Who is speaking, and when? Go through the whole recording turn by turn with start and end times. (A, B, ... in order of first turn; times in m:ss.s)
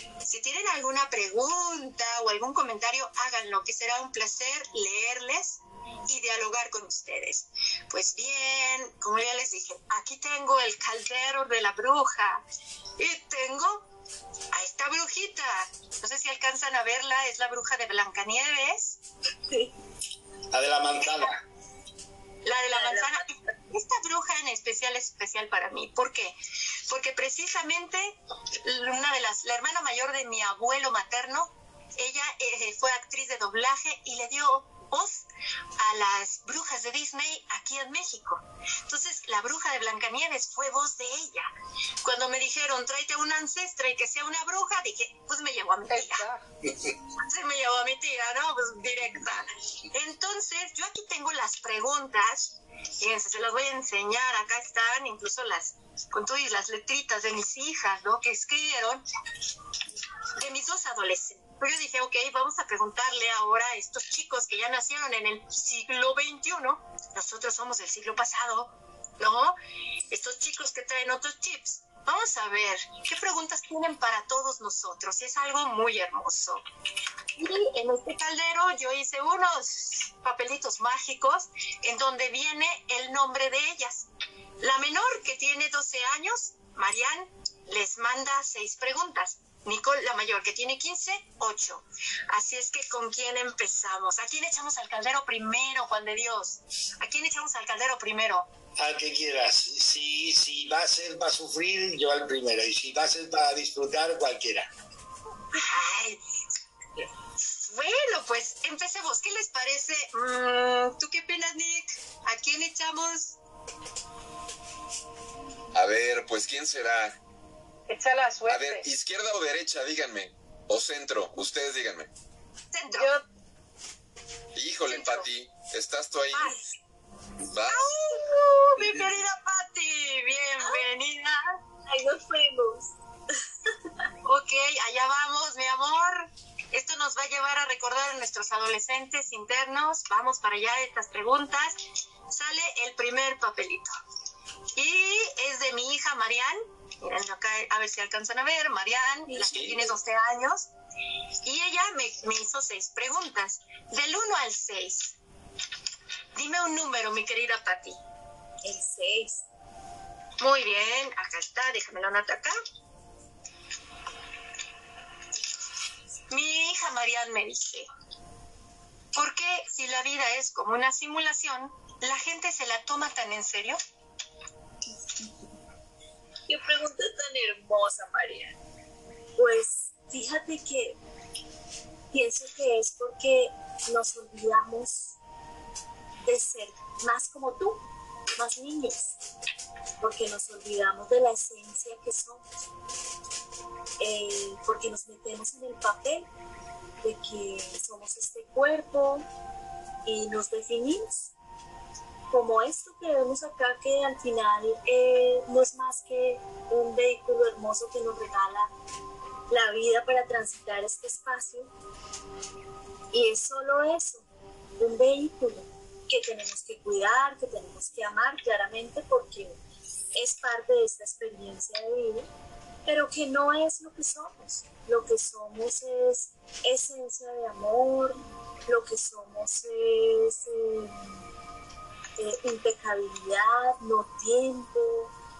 0:00.2-0:12.4 A
0:13.0-0:13.9 A
0:14.5-0:19.0 A
0:20.5-0:21.4 B
0:22.4-0:26.4 A
0:22.7-0:23.2 C
0:26.9-0:35.2 A
0:35.8-0:41.5 A
0:42.0-0:46.2 A
0:45.9-0:46.4 D
0:47.2-0:59.0 A
1:00.4-1:09.6 A
1:10.1-1:16.6 A
1:17.4-1:24.1 A
1:24.6-1:38.5 A
1:38.8-1:44.7 B
1:45.5-1:46.2 A
1:47.5-1:53.4 A
1:55.7-1:57.1 E
1:57.9-1:58.9 D
1:58.5-2:02.1 E
2:02.7-2:03.1 A
2:02.9-2:03.2 D
2:04.5-2:06.6 E
2:04.9-2:05.3 A
2:06.3-2:06.6 A
2:07.5-2:07.9 E
2:07.7-2:11.6 A
2:11.9-2:12.9 C
2:14.2-2:21.8 A
2:22.3-2:23.9 A
2:24.8-2:30.7 A
2:29.3-2:29.6 C
2:29.4-2:29.8 B
2:31.4-2:35.2 A
2:36.4-2:38.0 A
2:38.6-2:39.4 C
2:40.4-2:42.5 A
2:46.3-2:47.9 A
2:49.1-2:53.8 A
2:56.5-2:58.5 C
2:59.4-3:01.0 C
3:02.1-3:05.1 C
3:06.2-3:07.8 C
3:08.4-3:09.2 C
3:10.0-3:12.7 C
3:14.0-3:16.3 C
3:17.0-3:19.2 C
3:20.0-3:21.3 C
3:22.3-3:28.7 C
3:29.5-3:31.7 C
3:33.1-3:34.2 C
3:34.8-3:39.6 C
3:40.2-3:42.3 C
3:42.8-3:51.2 C
3:52.2-3:55.1 C